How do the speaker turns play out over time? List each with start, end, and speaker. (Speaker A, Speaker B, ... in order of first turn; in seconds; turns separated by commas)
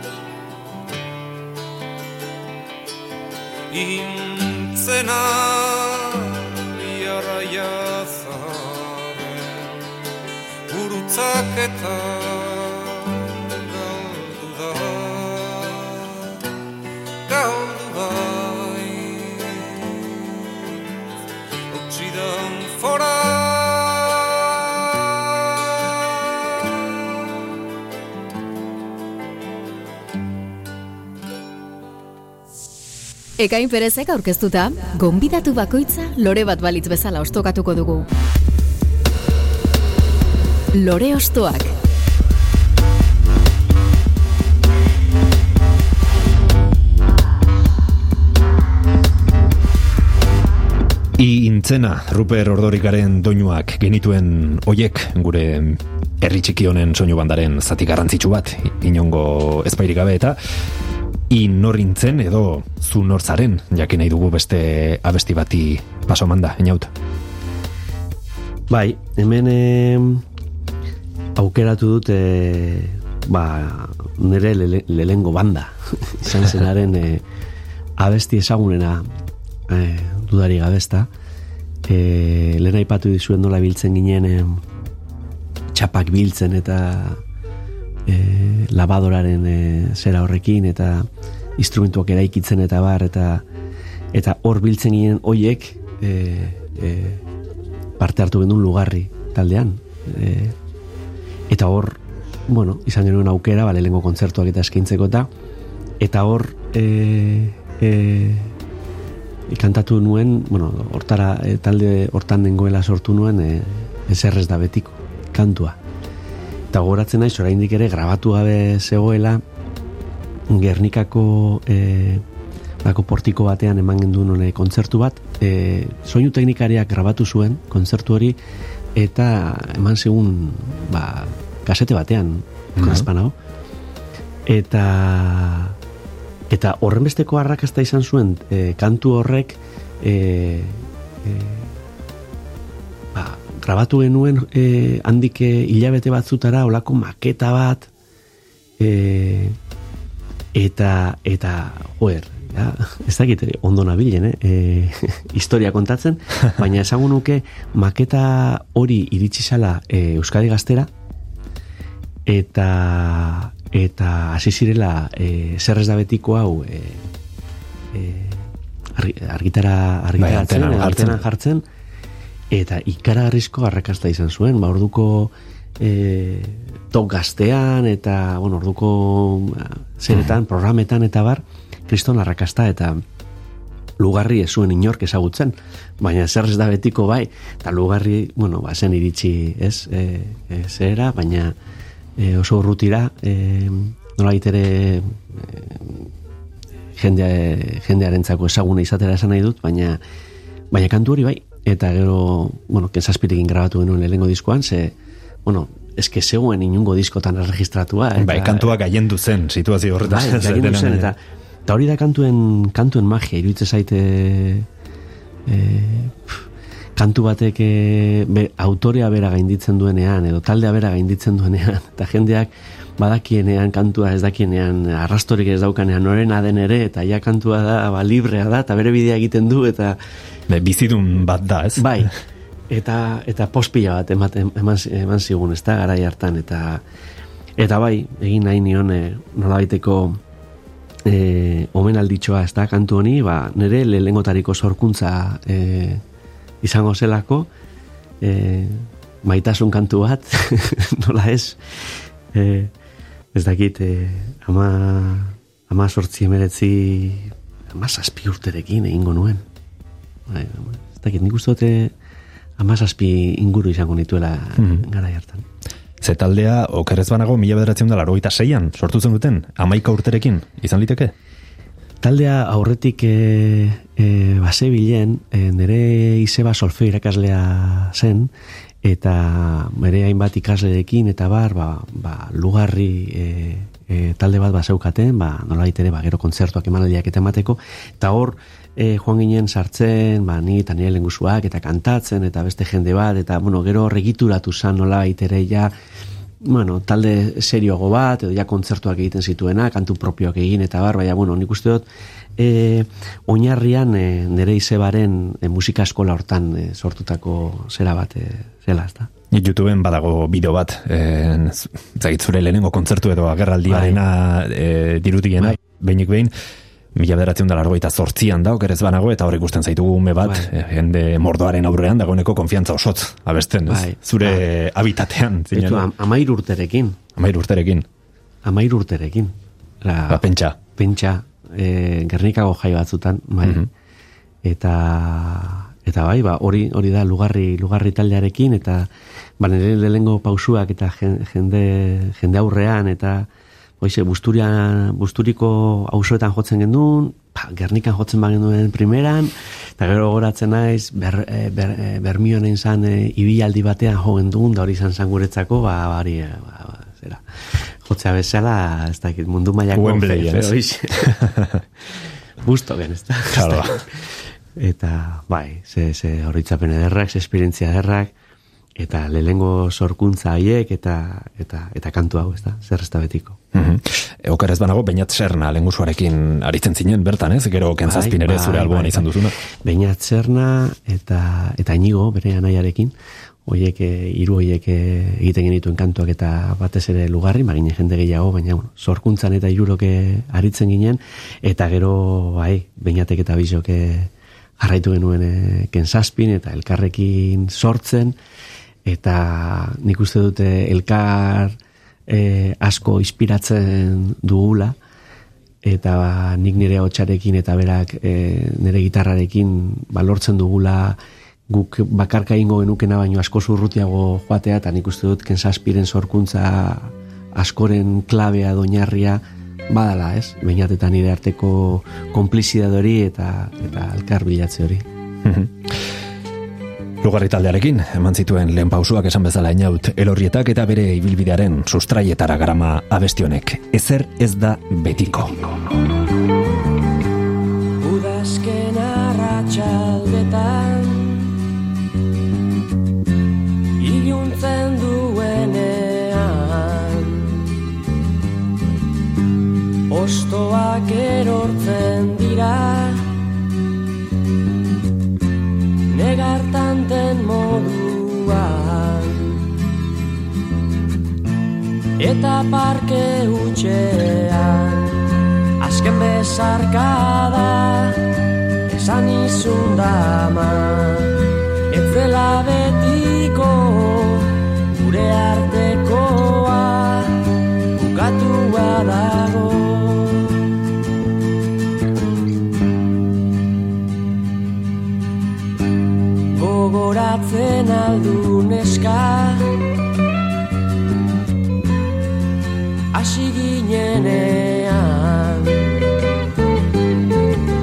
Speaker A: 3.7-9.5, Speaker A: 10.7-12.8, Speaker A: 13.7-15.8, Speaker A: 17.3-19.4, Speaker A: 21.7-24.2, Speaker B: 33.4-38.1, Speaker B: 40.7-41.7, Speaker C: 51.2-60.4, Speaker C: 61.3-66.9, Speaker D: 68.7-70.2, Speaker D: 71.3-77.2, Speaker D: 78.0-79.1, Speaker D: 79.7-81.1, Speaker D: 81.9-84.6, Speaker D: 85.7-87.2, Speaker D: 88.1-93.4, Speaker D: 94.1-97.2, Speaker D: 98.0-100.5, Speaker D: 101.5-105.3, Speaker D: 106.0-108.5, Speaker D: 109.5-115.8, Speaker D: 116.7-119.4, Speaker D: 120.5-122.2, Speaker D: 122.8-128.4, Speaker D: 128.9-133.3, Speaker C: 132.8-133.1, Speaker D: 134.4-135.8, Speaker D: 136.5-141.7, Speaker D: 143.1-147.9, Speaker D: 148.8-149.6, Speaker D: 150.5-160.9, Speaker D: 162.2-167.0, Speaker D: 167.9-171.6, Speaker C: 170.2-171.2, Speaker D: 172.5-183.0, Speaker D: 184.0-191.5, Speaker D: 192.2-196.1, Speaker D: 197.0-200.0, Speaker D: 200.7-204.9, Speaker D: 205.4-208.8, Speaker C: 208.1-211.1, Speaker D: 210.0-214.7, Speaker D: 215.5-216.4, Speaker D: 216.9-230.0, Speaker C: 230.5-232.1, Speaker D: 231.8-232.1, Speaker D: 232.7-236.8, Speaker D: 237.6-240.2, Speaker D: 241.1-246.0, Speaker D: 246.6-247.5, Speaker D: 248.2-252.7, Speaker D: 253.3-259.4, Speaker D: 260.3-261.9, Speaker D: 262.6-265.4, Speaker C: 264.6-264.8, Speaker C: 266.0-271.1, Speaker D: 272.0-278.3, Speaker D: 278.8-295.7, Speaker D: 296.4-301.8, Speaker D: 302.4-309.1, Speaker C: 309.3-316.3, Speaker D: 313.7-314.0, Speaker C: 316.9-325.9, Speaker D: 320.2-320.5, Speaker D: 323.7-324.4, Speaker D: 325.5-327.0, Speaker C: 327.2-327.9, Speaker D: 328.4-330.2, Speaker C: 330.1-330.6, Speaker D: 330.7-333.7, Speaker D: 334.4-338.9, Speaker D: 339.4-343.3, Speaker D: 343.8-357.2, Speaker D: 357.8-361.3, Speaker C: 359.7-361.6, Speaker D: 362.4-368.1, Speaker C: 363.3-363.8, Speaker D: 368.8-373.4, Speaker C: 373.5-379.3, Speaker D: 377.8-382.9, Speaker D: 383.4-398.1, Speaker D: 398.9-401.6, Speaker D: 402.1-404.8, Speaker D: 405.6-411.0, Speaker D: 411.5-424.9, Speaker C: 425.2-425.6, Speaker C: 427.0-435.5, Speaker E: 437.8-441.4, Speaker E: 443.8-447.4, Speaker E: 449.9-453.1, Speaker E: 455.9-459.4, Speaker E: 462.0-465.0, Speaker E: 465.6-468.1, Speaker E: 468.7-480.4, Speaker E: 486.3-489.6, Speaker E: 492.9-495.7